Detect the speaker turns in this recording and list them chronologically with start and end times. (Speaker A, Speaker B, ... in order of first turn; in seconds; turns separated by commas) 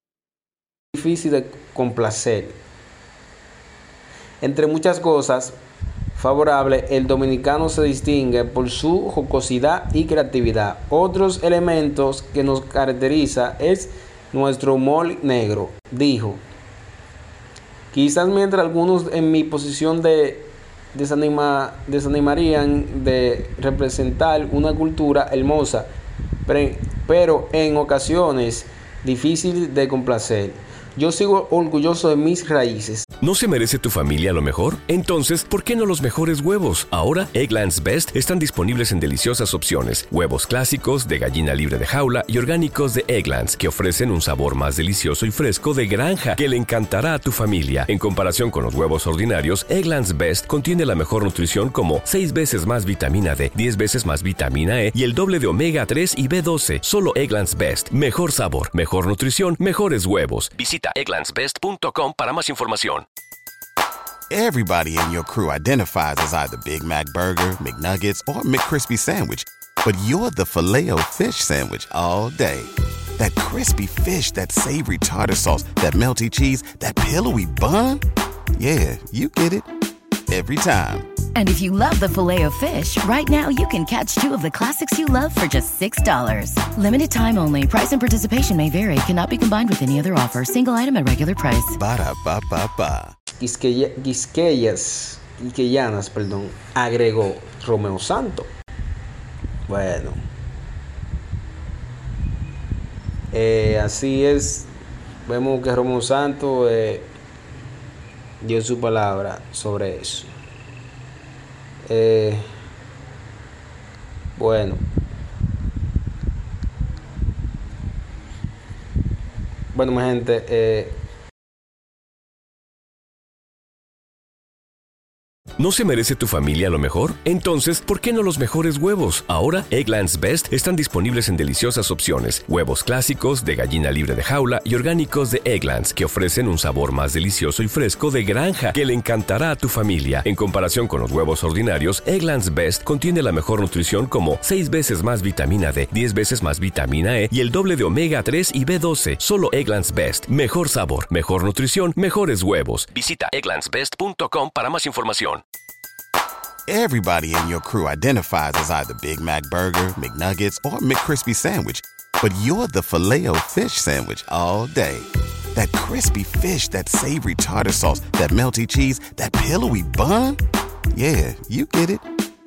Speaker A: 0.9-2.6, Speaker A: 4.4-5.6, Speaker A: 6.2-16.4, Speaker A: 17.9-25.9, Speaker A: 26.5-33.0, Speaker B: 33.2-63.0, Speaker C: 64.3-78.0, Speaker C: 78.6-79.7, Speaker C: 80.3-81.1, Speaker D: 81.3-91.8, Speaker C: 91.8-93.1, Speaker A: 93.4-98.5, Speaker A: 99.7-100.2, Speaker A: 103.3-104.7, Speaker A: 105.3-107.1, Speaker A: 108.4-110.3, Speaker A: 111.8-112.4, Speaker A: 114.4-114.8, Speaker A: 119.7-121.0, Speaker B: 125.6-155.4, Speaker C: 156.7-170.4, Speaker C: 170.9-172.1